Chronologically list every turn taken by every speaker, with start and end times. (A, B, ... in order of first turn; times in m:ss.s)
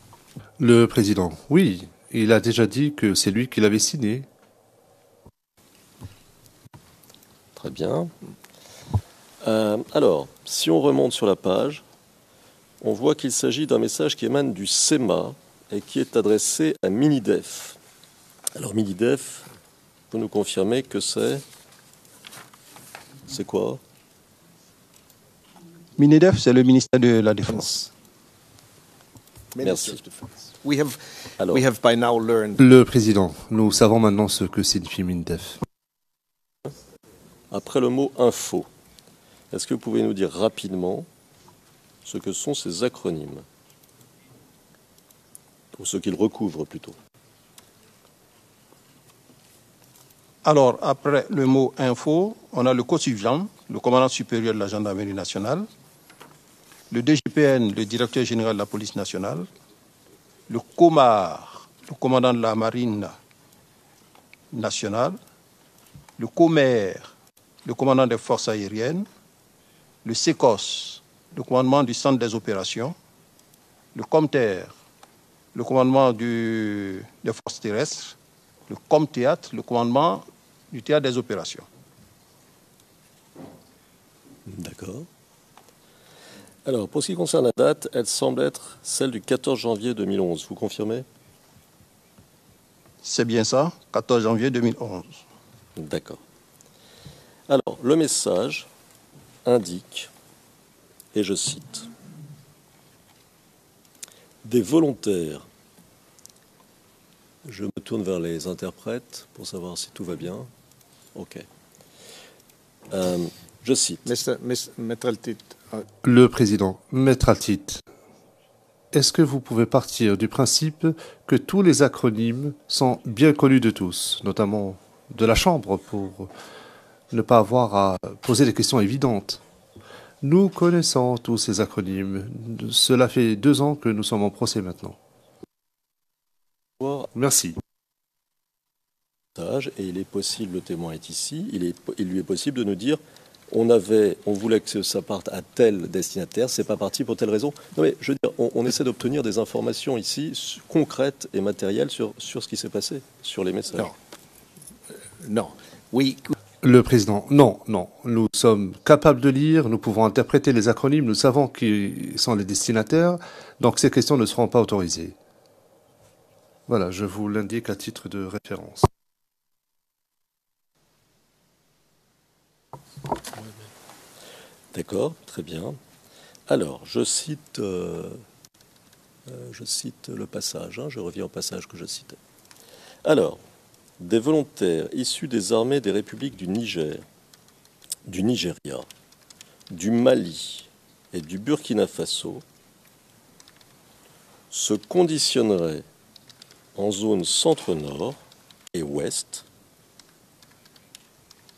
0:00.6-0:04.3 A
0:07.6-0:08.1 B
0:09.4-0:11.8 B
0:12.8-0:17.8 B
0:18.6-0:19.5 B
0:20.1-0:21.4 B
0:23.3-0:23.8 B
0:26.0-0:27.9 C
0:29.6-0:30.1 D
0:29.6-0:30.3 B
0:30.6-0:32.6 D
0:31.4-0:31.6 B
0:32.6-0:35.6 A
0:37.5-0:38.7 B
0:39.5-0:41.1 B
0:42.0-0:43.4 B
0:45.7-0:47.0 B
0:50.4-0:55.7 C
0:56.9-0:59.5 C
1:00.5-1:03.2 C
1:04.5-1:05.2 C
1:06.2-1:07.0 C
1:07.6-1:09.1 C
1:10.0-1:13.0 C
1:13.9-1:14.7 C
1:15.5-1:18.2 C
1:18.7-1:21.7 C
1:24.5-1:25.1 B
1:26.6-1:31.0 B
1:33.0-1:35.2 C
1:35.8-1:36.2 B
1:37.5-1:38.7 B
1:39.4-1:40.1 B
1:41.1-1:41.9 B
1:44.4-1:45.5 B
1:47.4-1:50.5 B
1:51.2-1:51.5 B
1:52.9-1:54.0 B
1:54.0-1:55.9 D
1:56.0-1:57.8 A
1:58.9-2:06.3 A
2:07.1-2:09.4 A
2:10.2-2:15.0 A
2:16.8-2:17.1 B
2:17.1-2:17.6 A
2:19.4-2:33.9 B
2:35.2-2:36.3 D
2:36.6-2:45.2 A
2:46.7-2:48.9 A
2:54.7-2:55.8 B
2:56.5-2:58.2 B
2:59.3-3:02.2 B
3:03.0-3:03.4 B
3:04.0-3:07.0 B
3:08.1-3:08.9 B
3:09.7-3:12.4 B
3:14.5-3:15.9 B
3:16.8-3:18.2 B
3:18.7-3:19.5 B